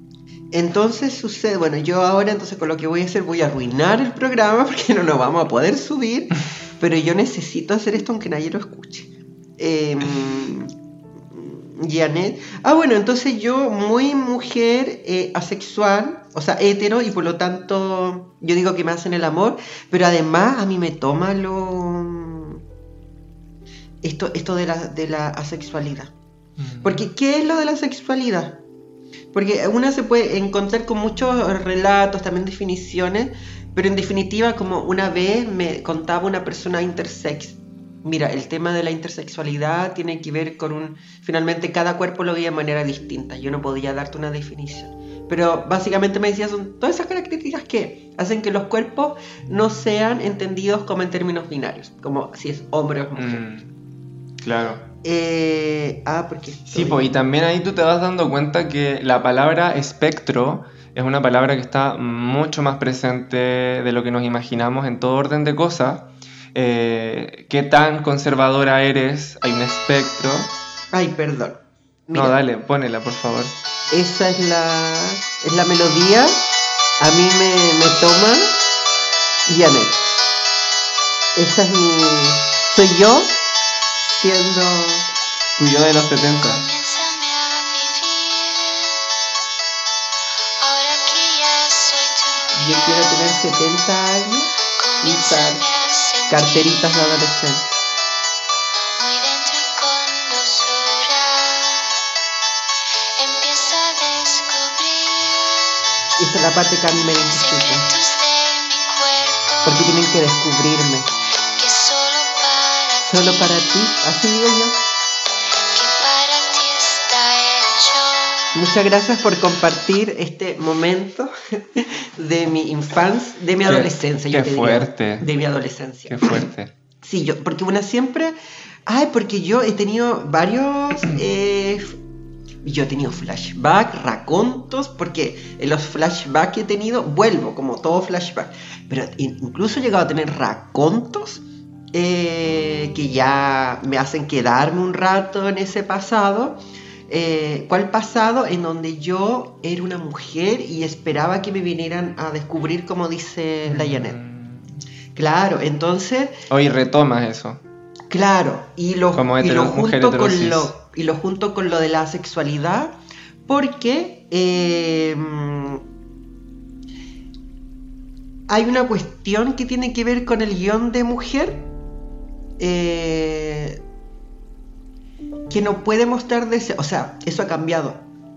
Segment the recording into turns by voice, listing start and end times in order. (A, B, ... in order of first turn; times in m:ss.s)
0:00.5-0:10.7 A
0:11.3-0:22.6 A
0:24.0-0:26.1 A
0:26.6-0:27.0 B
0:26.8-0:28.6 A
0:29.3-0:53.4 A
0:53.2-0:53.7 B
0:54.4-0:54.8 B
0:55.0-0:57.1 A
0:56.7-1:10.5 B
1:10.9-1:12.4 A
1:12.1-1:13.6 B
1:13.9-1:16.4 A
1:17.0-1:18.6 A
1:19.5-1:20.1 A
1:21.4-1:23.3 A
1:24.0-1:25.1 A
1:25.6-1:26.6 B
1:26.3-1:29.0 C
1:30.6-1:33.6 C
1:32.6-1:34.5 A
1:34.8-1:37.5 C
1:35.0-1:35.6 A
1:36.3-1:37.7 A
1:39.0-1:41.9 C
1:43.2-1:45.8 C
1:46.2-1:47.9 A
1:46.7-1:50.5 C
1:49.6-1:51.1 A
1:51.6-1:54.1 C
1:53.0-1:54.8 A
1:55.7-1:58.6 C
1:58.6-2:06.4 A
2:03.7-2:05.3 B
2:06.1-2:06.7 B
2:07.0-2:08.4 A
2:08.9-2:12.0 A
2:12.6-2:34.2 A
2:33.7-2:34.7 B
2:35.2-2:36.4 A
2:36.5-2:37.6 B
2:38.1-2:43.0 A
2:39.1-2:40.7 B
2:43.5-2:45.8 A
2:48.5-2:51.7 A
2:52.6-2:53.8 A
2:55.5-2:58.0 A